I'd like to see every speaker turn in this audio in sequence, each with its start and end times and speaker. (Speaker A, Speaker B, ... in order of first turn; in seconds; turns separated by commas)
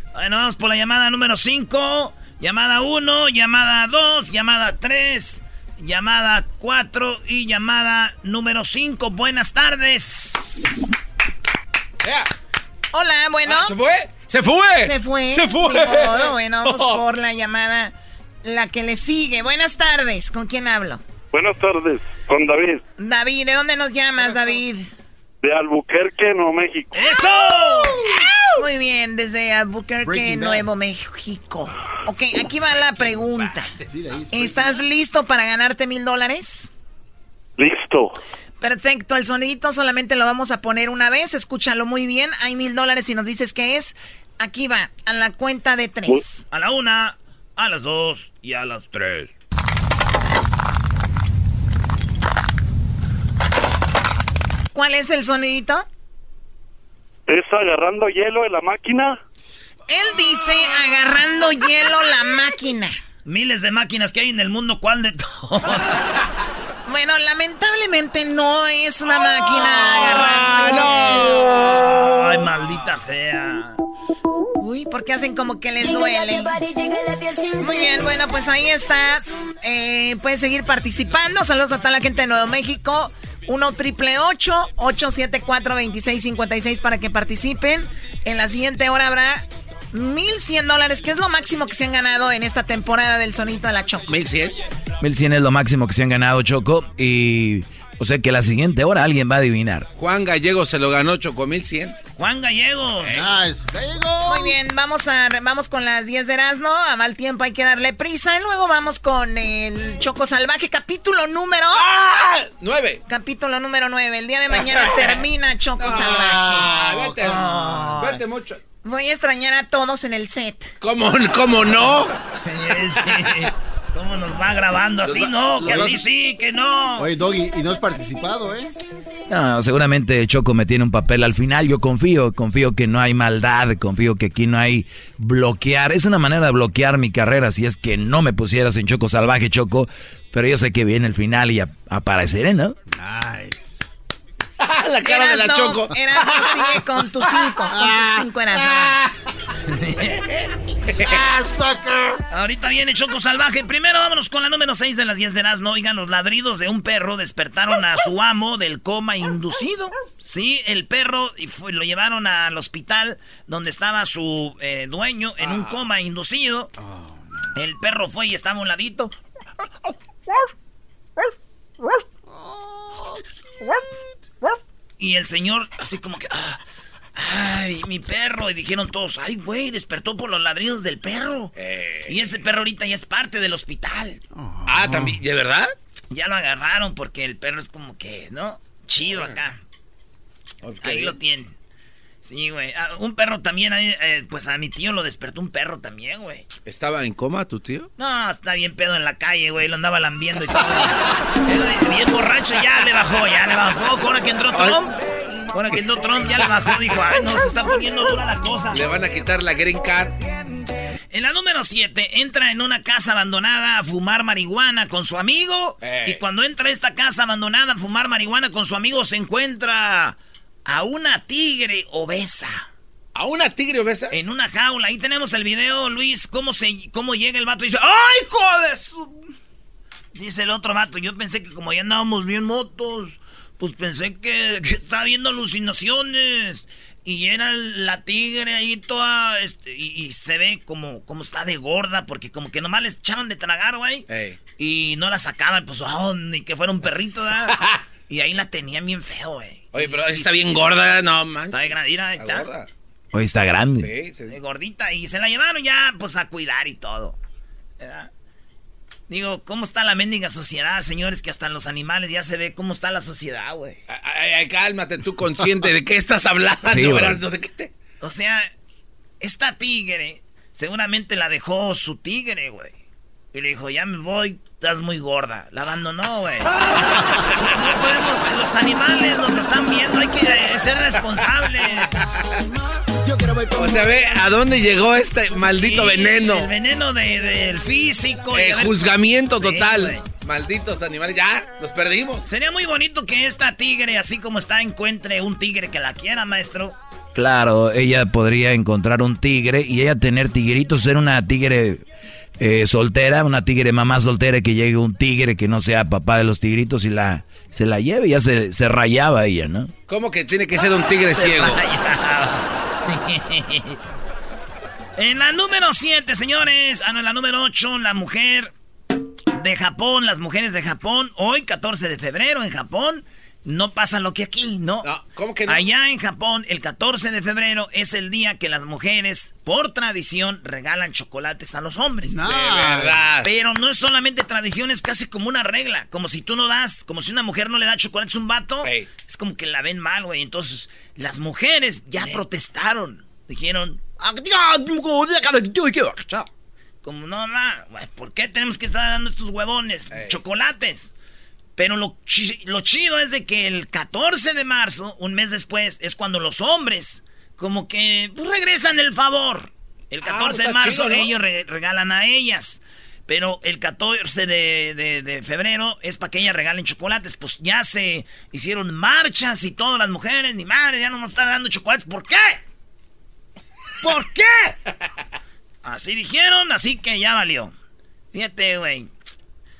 Speaker A: 0.1-10.6, Speaker B: 12.9-13.8, Speaker C: 13.4-17.0, Speaker B: 14.8-21.0, Speaker D: 21.3-22.8, Speaker B: 23.0-24.9, Speaker D: 25.4-26.9, Speaker A: 26.9-28.1, Speaker B: 28.6-33.7, Speaker E: 30.0-30.7, Speaker E: 33.9-34.8, Speaker B: 34.3-36.7, Speaker D: 37.6-38.2, Speaker B: 38.6-46.4, Speaker A: 46.5-49.4, Speaker B: 54.7-55.9, Speaker D: 57.3-59.2, Speaker B: 59.9-63.0, Speaker A: 63.3-66.1, Speaker B: 66.9-71.4, Speaker C: 69.6-71.6, Speaker A: 70.8-73.8, Speaker B: 74.6-76.6, Speaker B: 77.6-94.1, Speaker C: 94.1-94.5, Speaker F: 95.0-99.9, Speaker C: 100.0-102.0, Speaker A: 102.2-103.3, Speaker C: 103.0-103.5, Speaker E: 103.2-104.6, Speaker B: 104.3-111.9, Speaker C: 111.7-113.0, Speaker B: 113.1-116.7, Speaker C: 114.5-115.2, Speaker C: 115.8-118.6, Speaker A: 117.2-118.2, Speaker B: 118.8-120.7, Speaker C: 120.8-122.1, Speaker A: 122.5-127.1, Speaker C: 125.0-126.0, Speaker E: 125.6-126.0, Speaker E: 127.0-128.7, Speaker F: 129.3-142.8, Speaker E: 143.0-143.6, Speaker C: 144.6-148.6, Speaker B: 145.0-149.0, Speaker C: 150.9-151.2, Speaker E: 151.2-152.1, Speaker A: 152.3-166.7, Speaker C: 165.4-165.8, Speaker E: 166.8-167.2, Speaker A: 167.6-169.1, Speaker E: 172.8-173.2, Speaker A: 175.0-176.6, Speaker A: 177.2-181.5, Speaker C: 181.6-182.2, Speaker A: 182.1-184.2, Speaker E: 184.3-185.2, Speaker C: 184.7-185.7, Speaker A: 186.1-189.6, Speaker C: 189.1-189.3, Speaker C: 190.6-191.2, Speaker A: 190.8-191.5, Speaker A: 192.2-196.5, Speaker C: 196.7-197.9, Speaker A: 198.0-204.9, Speaker C: 204.5-204.8, Speaker A: 205.5-208.8, Speaker C: 206.4-206.8, Speaker C: 208.7-210.2, Speaker A: 211.1-222.7, Speaker C: 215.8-216.2, Speaker C: 223.2-224.2, Speaker A: 224.1-229.3, Speaker A: 230.1-244.1, Speaker C: 244.1-244.4, Speaker A: 244.6-250.8, Speaker C: 249.7-252.7, Speaker A: 251.5-252.5, Speaker F: 253.1-253.9, Speaker C: 253.8-254.3, Speaker A: 254.3-257.2, Speaker A: 257.8-258.1, Speaker A: 259.1-263.8, Speaker C: 263.9-267.7, Speaker F: 266.7-267.2, Speaker A: 268.0-268.5, Speaker A: 269.2-272.8, Speaker A: 273.3-276.5, Speaker A: 277.5-281.9, Speaker C: 283.5-286.5, Speaker A: 285.4-290.0, Speaker C: 288.3-292.2, Speaker A: 292.2-296.8, Speaker F: 297.1-301.8, Speaker F: 302.4-309.7, Speaker C: 309.9-311.6, Speaker A: 311.1-313.8, Speaker A: 315.0-318.5, Speaker A: 319.3-324.9, Speaker C: 324.8-325.6, Speaker A: 325.5-332.3, Speaker E: 332.1-333.0, Speaker C: 332.2-333.3, Speaker A: 333.2-344.1, Speaker C: 338.6-338.9, Speaker A: 346.8-350.9, Speaker C: 349.9-350.2, Speaker A: 351.6-372.4, Speaker C: 360.1-361.1, Speaker A: 373.8-374.6, Speaker A: 375.6-377.5, Speaker A: 378.1-378.9